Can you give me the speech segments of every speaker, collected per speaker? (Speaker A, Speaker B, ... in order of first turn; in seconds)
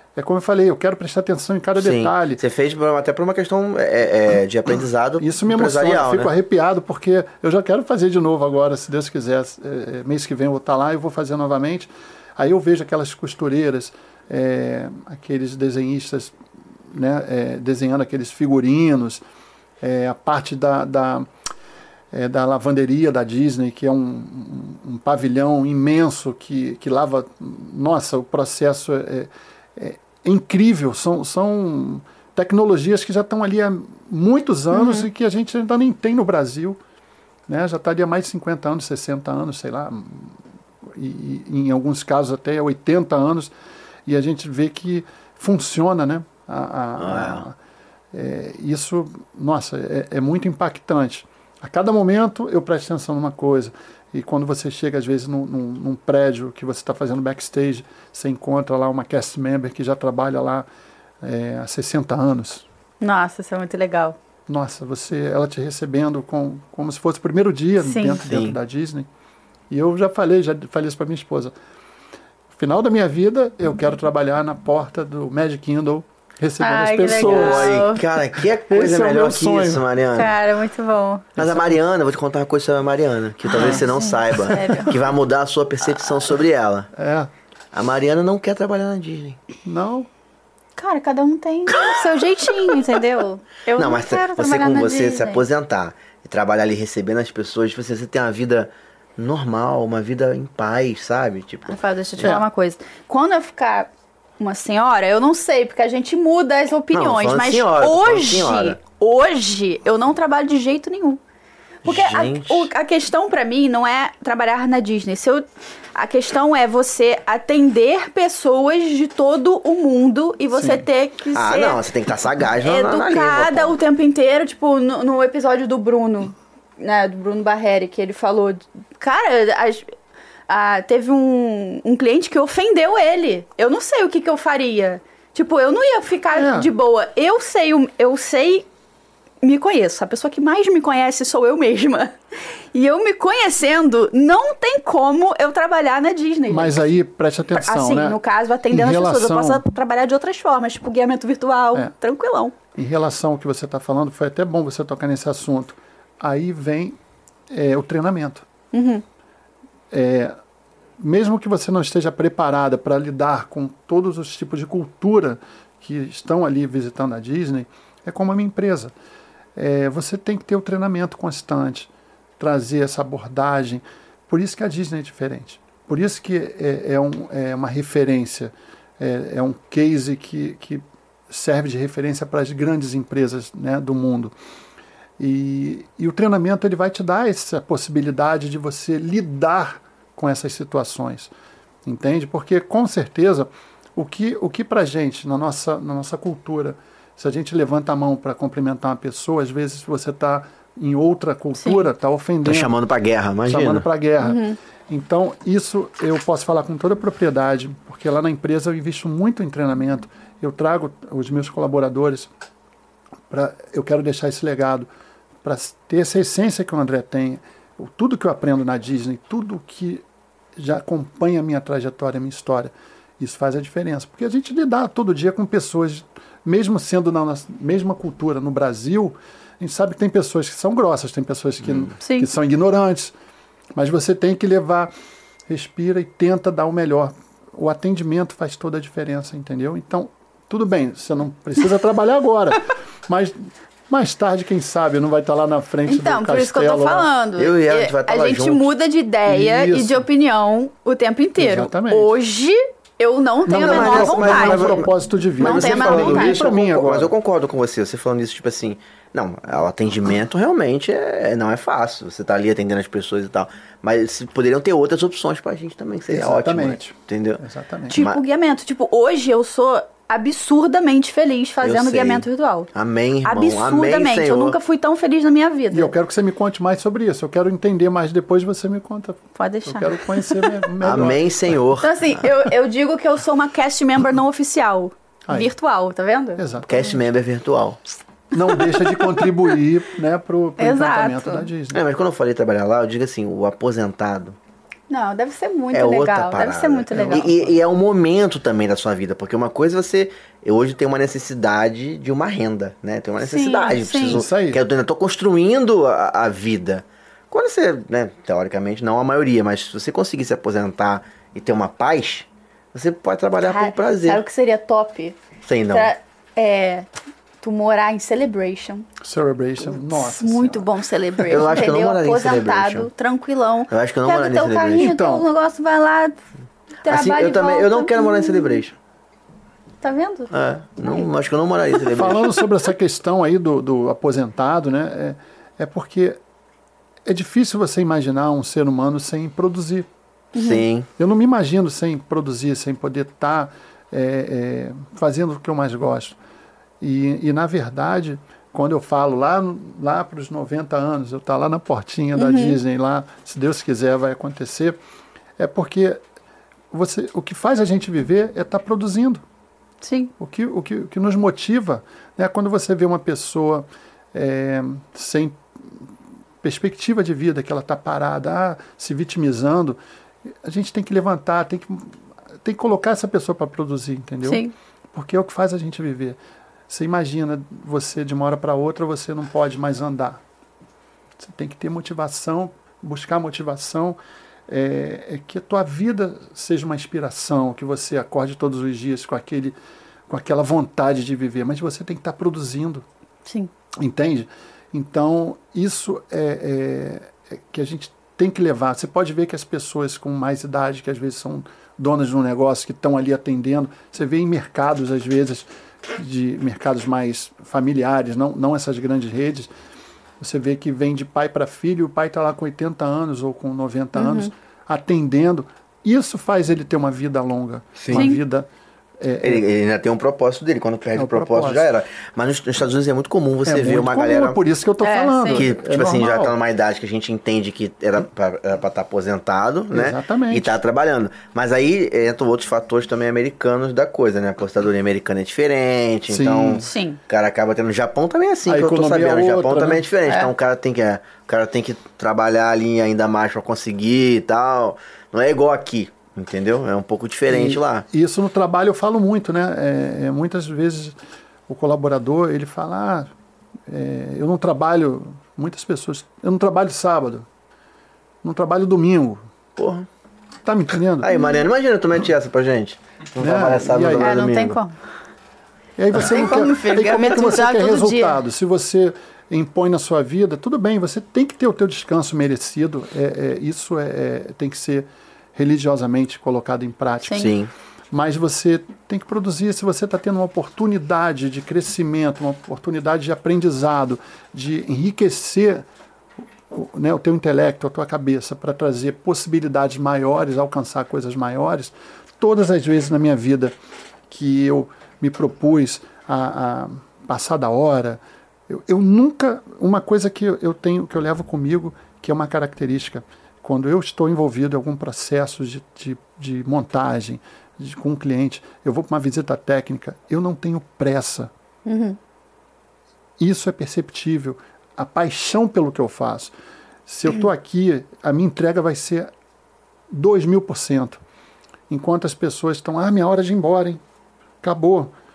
Speaker A: 0.2-2.4, 5.2-16.3, 16.9-19.2, 19.8-21.3, 22.1-36.8, 37.5-40.4, 40.9-43.5, 44.1-47.6, 48.1-60.7, 61.2-62.6, 64.5-69.1, 69.7-71.5, 72.5-77.8, 78.4-79.8, 81.4-81.8, 84.5-84.8, 87.0-87.3, 89.7-90.1, 120.5-120.8, 136.3-136.7, 146.5-148.2, 148.7-149.6, 152.8-157.0, 157.5-158.5, 159.9-160.3, 161.0-168.9, 169.6-184.3, 185.2-191.3, 191.9-202.7, 203.5-212.3, 213.3-214.9, 215.4-220.0, 220.6-233.1, 233.8-234.9, 235.5-247.1, 249.3-250.1, 251.4-252.1, 253.4-257.1, 266.1-268.0, 275.7-281.3, 286.4-287.0, 288.3-291.8, 296.9-297.6, 304.0-304.6, 319.0-320.7, 324.8-325.3, 331.9-336.2, 337.1-339.9, 341.0-346.2, 346.8-354.8, 355.4-356.0, 356.7-359.2, 360.2-365.4, 366.4-369.8, 370.4-376.2, 376.7-380.2, 381.2-389.6, 390.1-392.9, 393.8-409.5, 410.2-418.5, 419.0-419.4, 420.9-421.7, 423.5-426.4, 429.7-430.5, 436.1-436.7, 438.5-439.9, 447.3-451.0, 451.5-453.1, 453.7-457.3, 458.2-459.2, 460.4-461.1, 463.2-464.2, 465.8-477.3, 477.9-485.7, 486.5-493.5, 494.1-511.3, 513.2-516.3, 516.9-519.1, 519.9-521.0, 521.7-523.8, 524.4-524.9
Speaker B: 1.8-6.3, 47.0-47.5, 68.2-68.6, 77.2-80.3, 81.4-86.9, 87.7-89.4, 93.8-102.4, 106.9-108.8, 111.8-112.7, 121.3-123.8, 202.4-203.9, 247.4-248.7, 253.5-268.2, 271.6-274.6, 280.8-282.1, 286.7-287.8, 291.7-294.4, 295.7-314.2, 315.4-315.9, 321.3-322.9, 323.7-324.9, 326.9-328.7, 330.3-332.2, 340.4-340.9, 417.8-418.1, 419.2-424.4, 425.3-447.9, 459.6-459.9, 461.0-464.6, 477.1-477.5
Speaker C: 34.7-35.1, 63.0-64.2, 67.8-68.2, 76.6-78.0, 80.2-81.3, 83.5-84.9, 90.8-95.4, 101.7-111.2, 111.8-121.8, 122.6-129.9, 130.5-138.7, 139.4-142.1, 142.7-146.8, 147.6-152.6, 158.7-159.0, 204.2-204.6, 232.0-232.3, 245.9-256.5, 267.9-272.7, 273.2-275.9, 279.4-280.6, 281.8-286.4, 288.6-289.3, 290.6-291.5, 294.9-297.3, 303.2-304.2, 313.4-315.2, 315.7-316.9, 317.4-318.9, 319.7-326.2, 326.8-328.6, 329.8-330.3, 340.3-340.6, 352.1-352.6, 359.8-360.1, 374.2-374.5, 393.3-393.5, 414.0-414.3, 417.9-418.2, 424.8-425.4, 436.6-437.0, 440.1-440.3, 464.0-464.8, 465.9-468.2, 477.1-477.3, 511.7-512.0